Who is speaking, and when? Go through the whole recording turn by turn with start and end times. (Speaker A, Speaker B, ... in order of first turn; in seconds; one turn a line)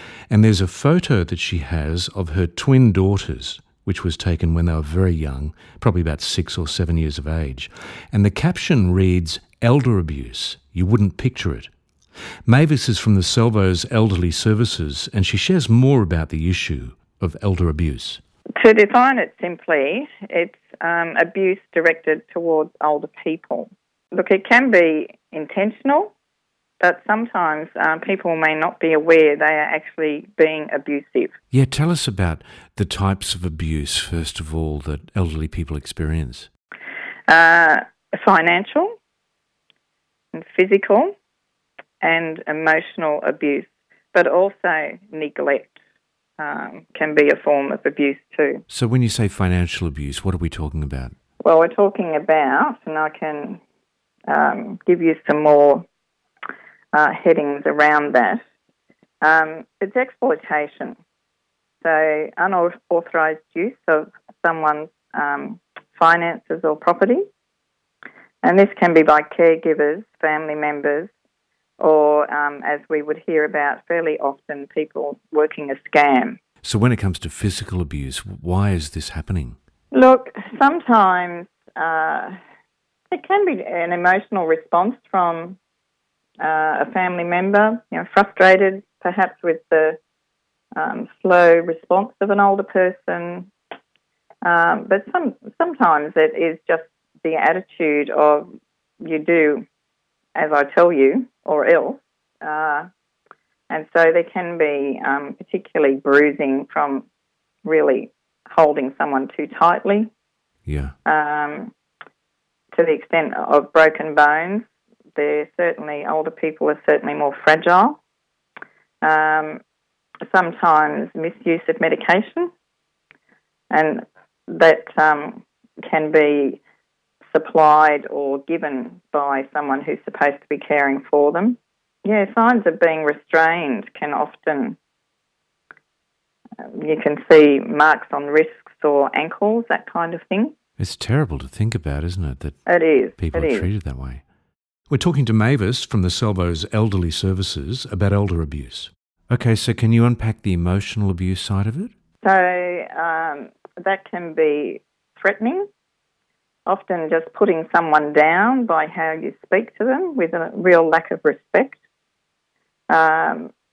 Speaker A: 0.3-11.7
Speaker A: 12.5-18.2
Speaker B: 18.6-26.1
Speaker B: 26.8-31.4
Speaker A: 31.5-36.5
Speaker B: 37.3-38.9
Speaker B: 40.3-41.1
Speaker B: 42.0-45.8
Speaker B: 46.4-48.6
Speaker A: 48.7-51.1
Speaker B: 51.4-53.6
Speaker B: 54.3-55.9
Speaker B: 56.9-58.4
Speaker B: 59.2-61.0
Speaker B: 61.8-67.2
Speaker B: 68.4-71.1
Speaker B: 71.8-76.4
Speaker A: 76.6-79.6
Speaker B: 79.9-82.4
Speaker B: 83.1-85.6
Speaker B: 86.4-90.0
Speaker B: 90.8-93.5
Speaker B: 94.4-99.7
Speaker B: 100.3-102.9
Speaker B: 103.7-107.1
Speaker B: 107.6-110.1
Speaker A: 110.7-111.0
Speaker B: 111.0-111.7
Speaker B: 112.7-118.0
Speaker B: 119.0-119.6
Speaker B: 120.3-122.5
Speaker B: 123.7-126.6
Speaker B: 127.3-134.8
Speaker B: 136.6-140.6
Speaker A: 140.8-142.7
Speaker B: 142.7-143.7
Speaker A: 143.2-144.2
Speaker A: 144.9-151.9
Speaker B: 152.2-155.7
Speaker B: 156.7-161.8
Speaker B: 162.9-163.5